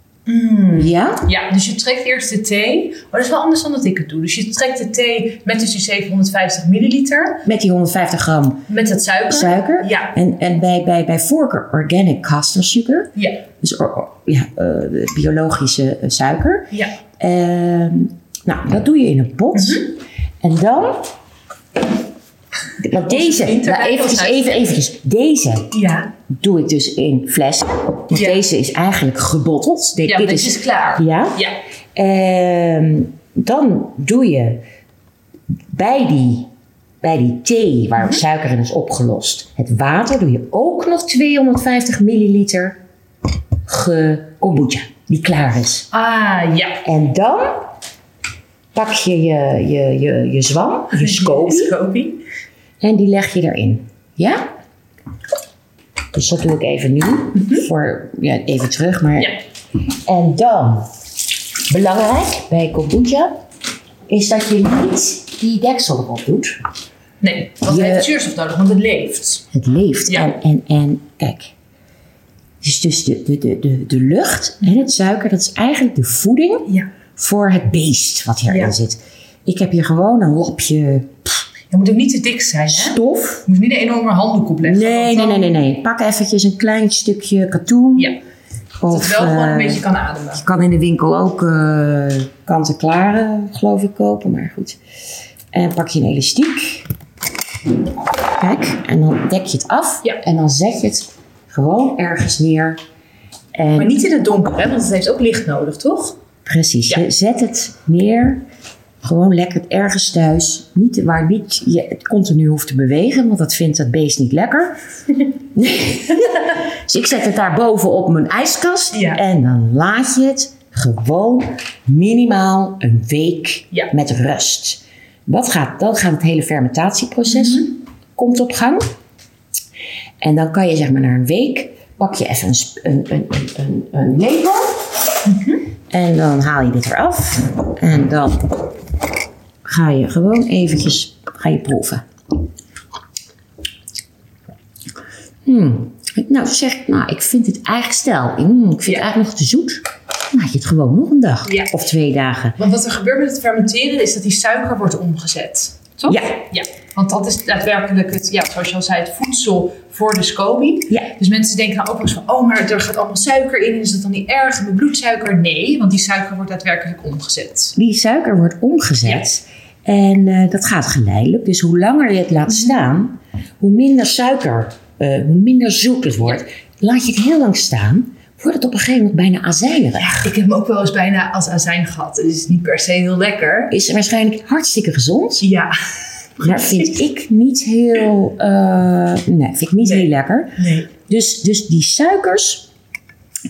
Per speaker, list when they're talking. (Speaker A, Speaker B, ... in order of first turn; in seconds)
Speaker A: 0.3-7.4, 8.7-10.1, 13.2-13.4, 19.6-19.9, 23.0-24.6, 25.7-26.1, 28.1-28.4, 30.1-31.6, 45.9-46.8, 50.9-52.2, 67.2-69.5, 70.1-70.3, 78.5-78.8, 81.7-85.5, 88.9-90.4, 103.8-106.2, 118.9-119.2, 127.3-127.7, 135.3-135.6, 151.5-151.7, 152.6-167.8, 180.2-183.7, 185.4-185.8, 186.4-187.0, 189.8-190.9
Speaker B: 0.8-1.3, 7.5-8.7, 9.3-21.1, 22.8-25.7, 26.4-31.4, 31.9-34.6, 35.7-36.5, 37.0-42.8, 43.7-45.9, 46.8-47.7, 48.8-51.7, 52.8-54.5, 56.1-59.4, 60.1-60.9, 61.7-63.4, 64.1-66.6, 67.7-68.1, 69.5-71.5, 72.6-81.4, 82.7-83.4, 84.6-88.2, 88.8-89.8, 90.4-94.8, 95.5-96.9, 98.4-102.8, 103.5-104.0, 106.5-108.4, 109.0-114.8, 115.5-128.9, 130.2-134.8, 135.9-138.5, 139.7-142.1, 145.5-152.6, 156.1-156.4, 167.8-180.3, 183.7-185.5, 186.4-192.7